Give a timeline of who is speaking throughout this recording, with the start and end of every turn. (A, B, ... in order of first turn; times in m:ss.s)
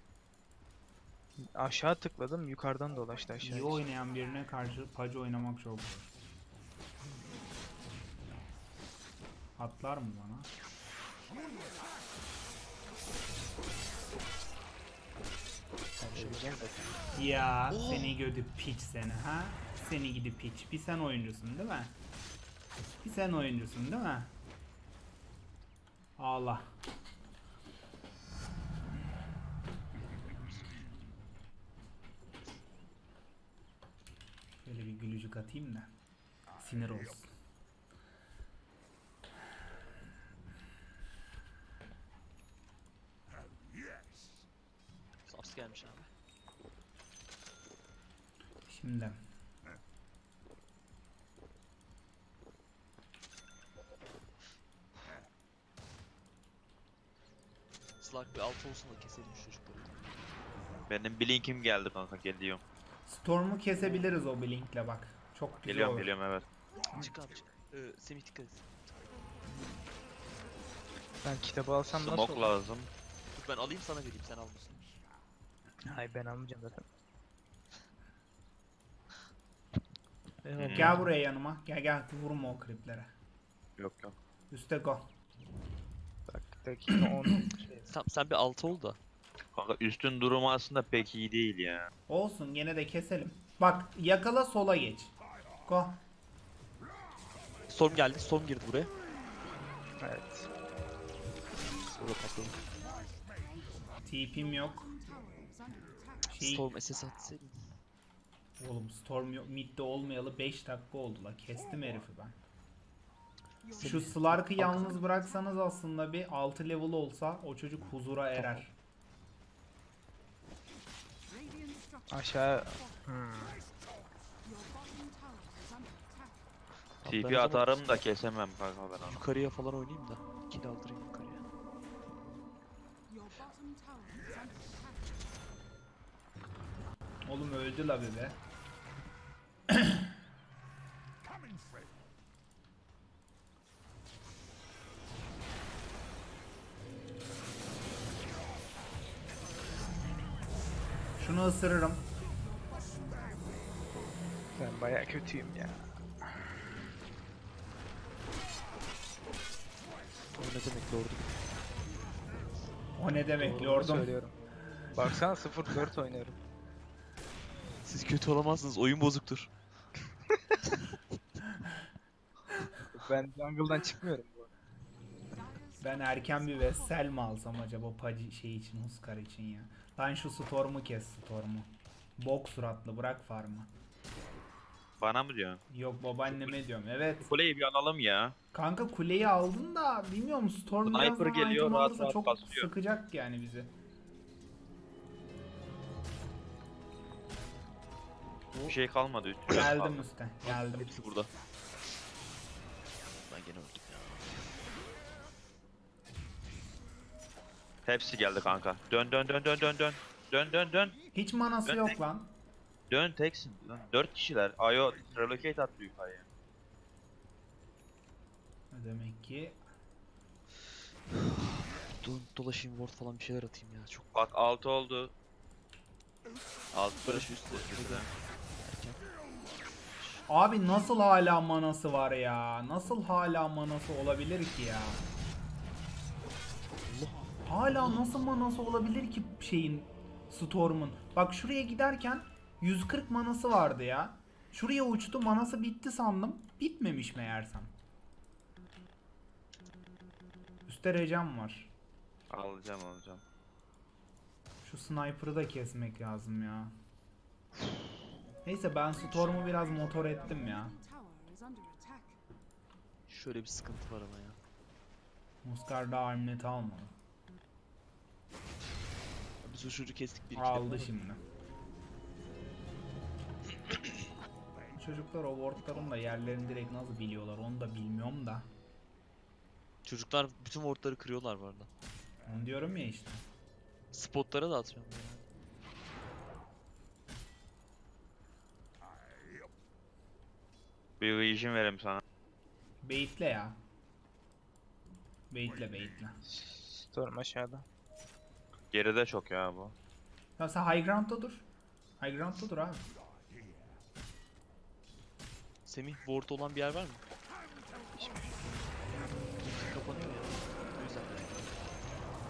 0:01.4-0:03.8 A
0:03.4-0:06.1 B
0:09.6-0:10.5 B
0:16.0-0:16.8 A
0:16.1-0:16.7 C
0:17.2-0:22.0 B
0:17.7-0:18.2 C
0:23.0-0:24.3 B
0:26.2-0:26.7 B
0:34.6-0:35.9 B
0:36.6-0:37.3 B
0:45.2-0:46.1 C
0:48.7-0:49.2 B
0:58.0-1:00.0 C
1:00.9-1:02.6 D
1:03.1-1:06.1 B
1:05.7-1:06.5 D
1:06.9-1:08.7 C
1:11.2-1:12.5 A
1:11.9-1:12.9 D
1:13.3-1:14.8 C
1:15.9-1:16.9 A
1:20.4-1:21.1 A
1:20.6-1:21.0 D
1:20.8-1:23.1 B
1:23.8-1:24.1 D
1:24.5-1:25.1 B
1:26.3-1:27.9 A
1:26.9-1:27.5 B
1:27.9-1:29.0 C
1:29.6-1:31.9 D
1:32.1-1:35.1 B
1:35.7-1:36.0 B
1:37.7-1:38.9 C
1:40.0-1:40.5 A
1:41.9-1:42.6 C
1:44.0-1:45.0 B
1:46.3-1:46.7 B
1:46.3-1:47.7 C
1:48.6-1:52.4 B
1:53.7-1:55.0 C
1:53.8-1:58.7 B
2:02.1-2:03.6 A
2:07.0-2:08.0 C
2:07.1-2:09.2 D
2:09.1-2:11.4 C
2:17.3-2:18.4 B
2:19.7-2:20.2 B
2:31.2-2:32.0 B
2:34.6-2:36.4 A
2:40.4-2:41.3 C
2:43.0-2:44.2 B
2:43.4-2:44.4 A
2:44.9-2:46.4 A
2:47.8-2:49.5 C
2:52.9-2:54.5 A
2:55.8-3:03.7 B
3:05.0-3:05.6 D
3:05.7-3:07.3 B
3:07.3-3:08.4 D
3:08.5-3:13.7 B
3:10.8-3:12.7 D
3:18.7-3:20.0 D
3:19.5-3:20.9 B
3:20.4-3:21.3 C
3:23.2-3:24.5 C
3:27.8-3:31.0 D
3:31.1-3:32.3 B
3:31.7-3:32.0 D
3:32.9-3:36.2 D
3:38.7-3:39.6 B
3:41.1-3:44.1 C
3:44.1-3:45.1 D
3:46.7-3:48.1 D
3:47.0-3:49.0 C
3:49.9-3:50.2 C
3:50.3-3:55.0 B
3:56.8-3:58.0 C
3:57.5-4:07.7 B
4:10.7-4:11.7 B
4:12.3-4:13.2 D
4:14.6-4:16.8 B
4:18.4-4:20.8 B
4:23.1-4:24.4 C
4:25.4-4:26.9 B
4:29.4-4:31.0 C
4:30.4-4:31.2 B
4:34.7-4:38.5 B
4:39.8-4:41.7 C
4:42.2-4:43.2 B
4:43.9-4:45.2 C
4:51.0-4:52.0 D
4:52.8-4:53.6 B
4:55.3-4:56.2 B
4:56.3-4:57.6 A
4:58.7-4:59.7 D
5:00.4-5:01.5 B
5:02.0-5:02.9 B
5:05.7-5:07.0 C
5:08.0-5:08.3 C
5:09.4-5:11.5 C